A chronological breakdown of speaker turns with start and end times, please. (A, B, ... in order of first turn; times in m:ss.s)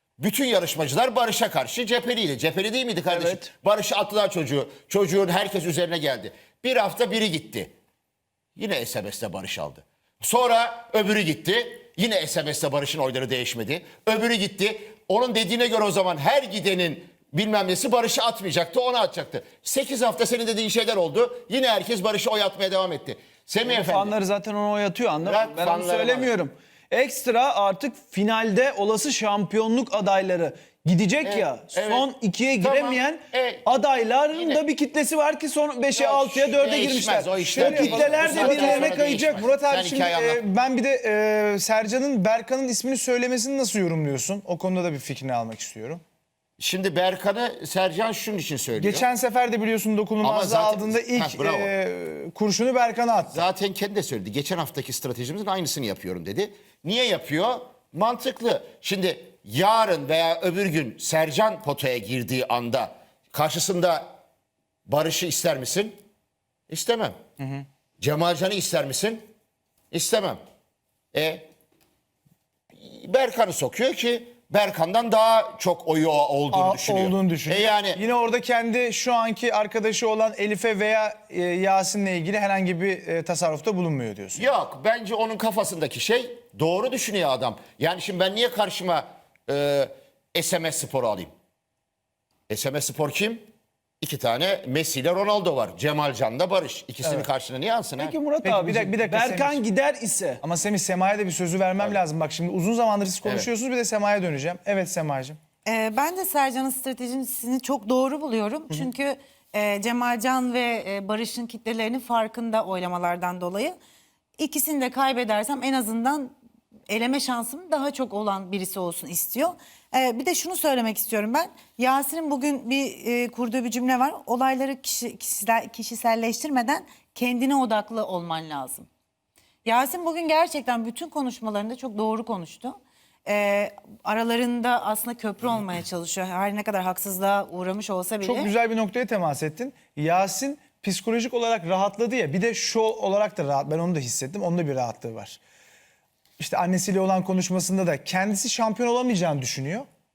0:00.2-0:07.8 A
0:03.1-0:03.5 B
0:08.6-0:24.1 A
0:23.6-0:39.4 B
0:25.2-0:26.3 A
0:31.2-0:32.1 A
0:32.6-0:33.7 A
0:34.3-0:34.6 A
0:35.9-0:40.4 A
0:37.3-0:46.0 C
0:46.6-0:49.1 A
0:48.8-0:53.4 C
0:50.2-0:51.7 A
0:53.3-1:04.1 A
1:04.9-1:06.0 A
1:06.7-1:07.2 A
1:08.0-1:09.3 A
1:09.9-1:10.4 A
1:11.1-1:11.5 A
1:12.7-1:18.0 A
1:16.5-1:24.4 C
1:24.4-1:31.3 A
1:32.5-1:33.5 A
1:34.0-1:38.2 A
1:38.0-1:40.4 B
1:38.4-1:39.6 C
1:40.4-1:45.4 C
1:45.6-1:53.8 D
1:54.4-1:56.4 D
1:56.9-2:08.9 D
2:09.6-2:12.8 D
2:13.3-2:18.5 D
2:18.2-2:25.4 C
2:26.4-2:29.9 C